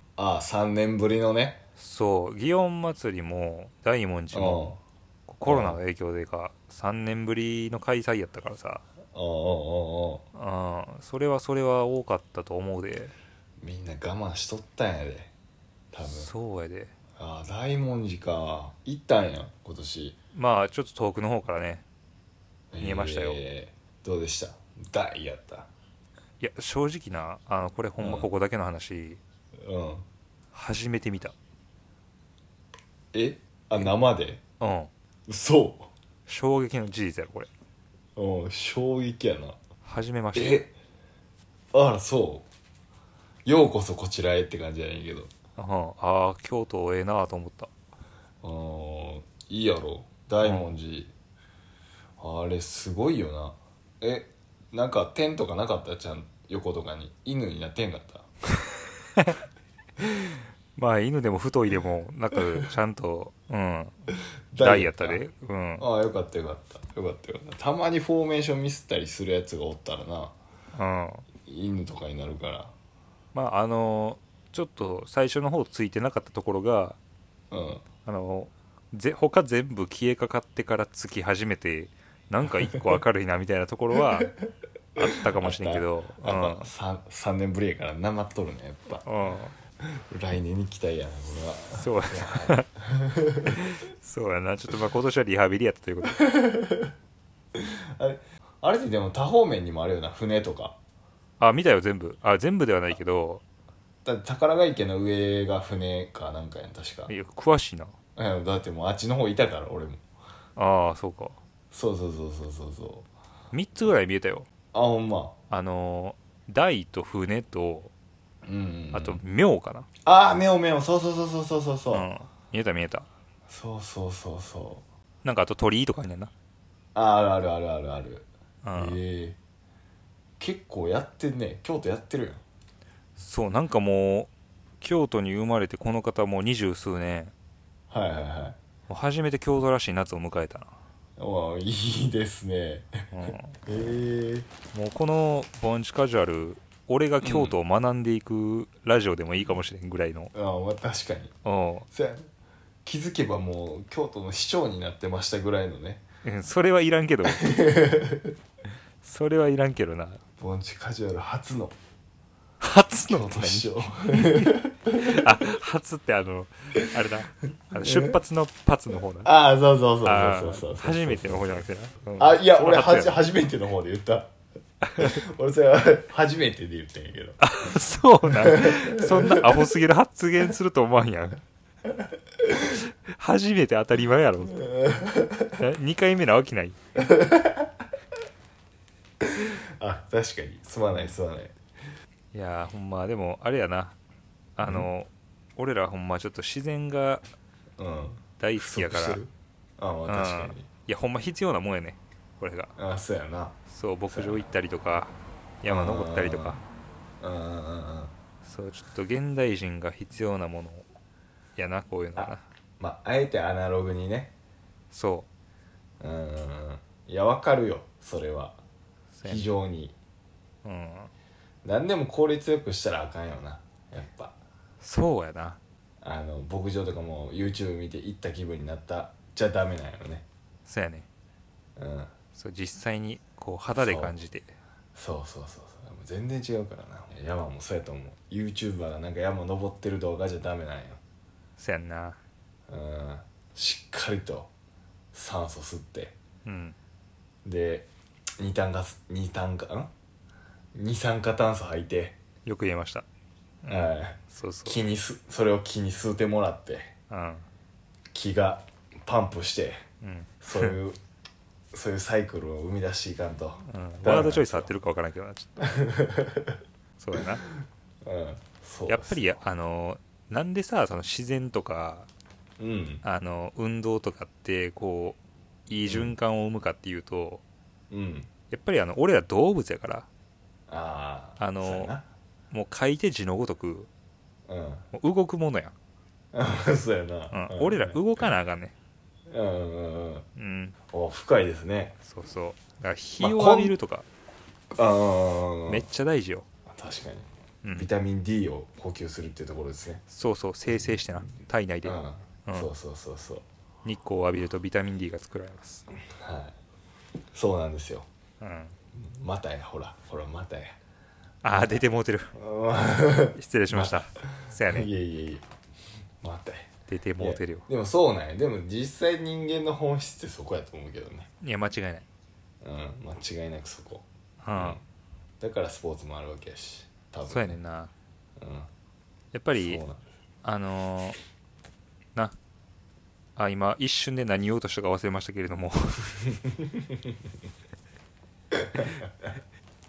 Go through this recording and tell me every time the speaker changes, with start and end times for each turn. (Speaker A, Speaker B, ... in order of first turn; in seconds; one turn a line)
Speaker A: 0.2-1.6
Speaker B: 1.8-4.8
Speaker A: 4.3-4.8
Speaker B: 5.3-8.8
Speaker A: 5.5-5.8
Speaker A: 9.1-10.2
Speaker B: 10.3-13.1
Speaker A: 13.6-15.3
Speaker A: 15.9-16.3
Speaker B: 16.0-16.9
Speaker A: 17.2-20.2
Speaker B: 20.3-21.8
Speaker A: 22.7-25.7
Speaker B: 22.8-23.4
Speaker B: 26.4-29.2
Speaker A: 28.0-28.3
Speaker A: 29.6-30.1
Speaker B: 30.5-31.3
Speaker A: 33.1-34.4
Speaker B: 34.6-34.9
Speaker A: 35.3-35.9
Speaker B: 36.3-37.5
Speaker A: 38.1-39.6
Speaker B: 39.8-40.6
Speaker A: 40.3-40.7
Speaker A: 41.7-42.5
Speaker A: 43.4-45.3
Speaker B: 45.6-47.7
Speaker A: 48.4-51.1
Speaker B: 50.4-50.7
Speaker A: 52.2-58.3
Speaker B: 60.0-65.8
Speaker A: 64.5-65.2
Speaker A: 65.8-70.3
Speaker B: 70.7-71.2
Speaker A: 71.4-72.7
Speaker B: 73.3-77.0
Speaker A: 77.5-77.8
Speaker B: 78.0-84.3
Speaker A: 85.0-89.0
Speaker B: 85.0-86.7
Speaker B: 89.0-89.5
Speaker A: 89.8-93.6
Speaker B: 91.7-92.7
Speaker B: 93.5-96.2
Speaker A: 96.1-96.9
Speaker A: 97.5-100.8
Speaker B: 101.4-103.4
Speaker A: 104.0-107.1
Speaker B: 107.1-107.9
Speaker A: 108.2-110.0
Speaker B: 110.5-111.4
Speaker A: 111.7-113.1
Speaker B: 113.5-114.5
Speaker A: 114.7-115.3
Speaker B: 115.5-117.9
Speaker A: 118.4-119.2
Speaker B: 118.9-119.9
Speaker A: 120.0-122.1
Speaker B: 121.9-123.1
Speaker A: 123.5-124.8
Speaker B: 125.2-126.3
Speaker A: 126.9-129.4
Speaker B: 128.6-129.0
Speaker A: 130.4-132.4
Speaker B: 133.2-137.3
Speaker A: 137.9-138.6
Speaker B: 138.9-140.7
Speaker A: 141.2-144.5
Speaker B: 143.1-143.6
Speaker B: 144.7-150.3
Speaker A: 147.2-147.5
Speaker A: 150.3-151.3
Speaker B: 151.4-151.9
Speaker A: 151.9-152.3
Speaker A: 152.8-156.0
Speaker B: 156.2-157.7
Speaker A: 157.3-158.3
Speaker B: 159.0-160.2
Speaker A: 160.4-161.8
Speaker B: 162.6-169.3
Speaker A: 163.1-165.4
Speaker A: 167.7-168.2
Speaker A: 169.2-171.6
Speaker B: 170.0-173.2
Speaker A: 172.2-174.3
Speaker B: 174.8-175.2
Speaker A: 174.9-177.4
Speaker B: 177.4-181.4
Speaker A: 178.3-179.6
Speaker B: 182.6-184.7
Speaker A: 184.6-185.5
Speaker B: 185.6-186.8
Speaker A: 187.0-187.7
Speaker A: 189.2-191.6
Speaker B: 192.3-193.9
Speaker B: 194.6-197.2
Speaker A: 194.6-194.9
Speaker A: 197.8-200.7
Speaker B: 198.4-199.2
Speaker B: 200.1-202.7
Speaker A: 202.8-203.6
Speaker B: 203.7-206.6
Speaker A: 204.1-204.4
Speaker A: 205.7-206.6
Speaker A: 207.2-208.1
Speaker B: 208.4-210.8
Speaker B: 211.6-212.4
Speaker A: 212.2-214.3
Speaker B: 214.9-215.3
Speaker A: 216.0-218.6
Speaker B: 219.1-219.5
Speaker A: 219.2-219.9
Speaker B: 220.6-221.1
Speaker A: 221.6-224.3
Speaker B: 224.8-225.6
Speaker A: 226.0-230.2
Speaker B: 230.7-231.1
Speaker A: 231.8-232.1
Speaker B: 232.3-234.6
Speaker A: 233.7-234.1
Speaker A: 234.9-241.0
Speaker B: 241.6-242.2
Speaker A: 242.7-244.5
Speaker A: 245.1-246.1
Speaker B: 246.4-246.8
Speaker A: 247.4-249.9
Speaker A: 250.7-252.2
Speaker B: 252.4-253.0
Speaker B: 253.6-254.8
Speaker A: 253.7-256.9
Speaker B: 257.1-257.4
Speaker A: 258.1-259.8
Speaker B: 260.0-260.8
Speaker A: 260.4-261.0
Speaker A: 261.7-264.7
Speaker B: 263.6-265.7
Speaker A: 265.6-266.6
Speaker B: 267.0-267.4
Speaker A: 268.0-269.3
Speaker B: 268.9-272.1
Speaker A: 272.6-273.0
Speaker B: 273.0-277.4
Speaker A: 275.9-276.1
Speaker A: 277.9-278.3
Speaker B: 278.5-280.1
Speaker A: 280.7-282.0
Speaker B: 281.4-281.9
Speaker B: 282.5-283.9
Speaker A: 284.5-284.8
Speaker B: 284.9-285.7
Speaker A: 286.3-288.0
Speaker B: 287.3-288.7
Speaker A: 289.3-290.2
Speaker B: 290.4-290.7
Speaker A: 290.9-292.0
Speaker B: 292.0-294.1
Speaker A: 293.2-293.8
Speaker A: 294.7-295.9
Speaker B: 295.7-296.4
Speaker A: 296.7-300.0
Speaker B: 297.6-297.9
Speaker B: 300.1-302.7
Speaker A: 301.8-303.4
Speaker B: 303.8-305.9
Speaker A: 306.1-306.5
Speaker A: 307.3-308.1
Speaker B: 308.4-308.8
Speaker A: 308.9-310.8
Speaker B: 311.4-312.3
Speaker A: 311.5-311.8
Speaker A: 312.3-314.0
Speaker B: 313.3-314.9
Speaker A: 314.6-315.4
Speaker A: 316.2-321.3
Speaker B: 316.9-317.7
Speaker B: 321.4-322.0
Speaker A: 322.6-324.8
Speaker B: 324.4-324.8
Speaker A: 325.4-327.6
Speaker B: 327.3-327.9
Speaker A: 328.4-328.7
Speaker B: 329.3-329.8
Speaker A: 329.5-330.0
Speaker B: 330.4-331.2
Speaker B: 333.4-336.2
Speaker A: 336.3-337.3
Speaker A: 338.5-339.3